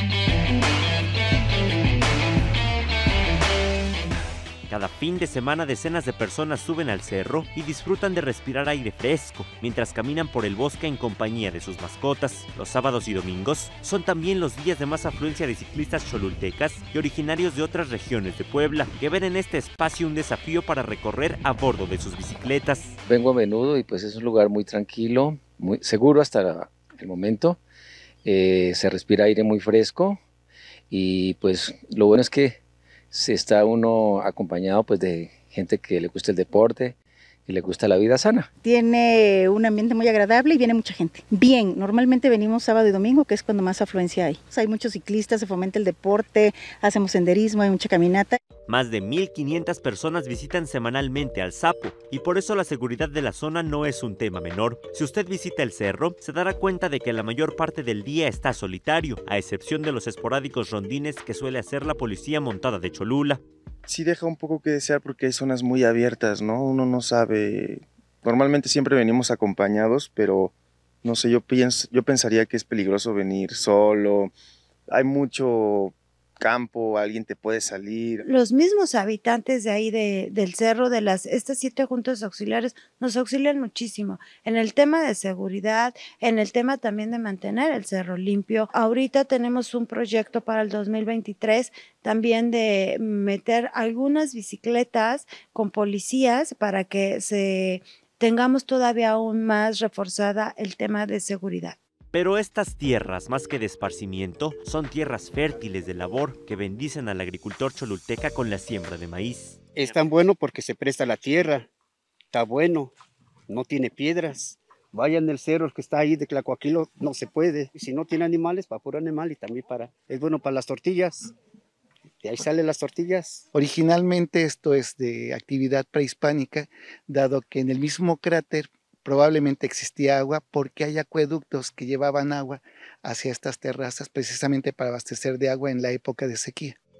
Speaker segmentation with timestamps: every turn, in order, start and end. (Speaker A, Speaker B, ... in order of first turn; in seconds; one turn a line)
Speaker A: 4.7-22.9
Speaker B: 23.1-27.6
Speaker B: 28.2-30.2
Speaker B: 30.9-32.6
Speaker B: 33.1-37.0
Speaker B: 37.5-38.5
Speaker C: 38.6-48.4
Speaker A: 48.7-63.4
Speaker D: 63.9-74.3
Speaker D: 74.9-78.2
Speaker E: 78.2-101.8
Speaker A: 102.1-110.0
Speaker F: 109.8-111.7
Speaker F: 112.3-112.9
Speaker F: 113.5-121.3
Speaker F: 122.2-123.5
Speaker G: 123.5-136.8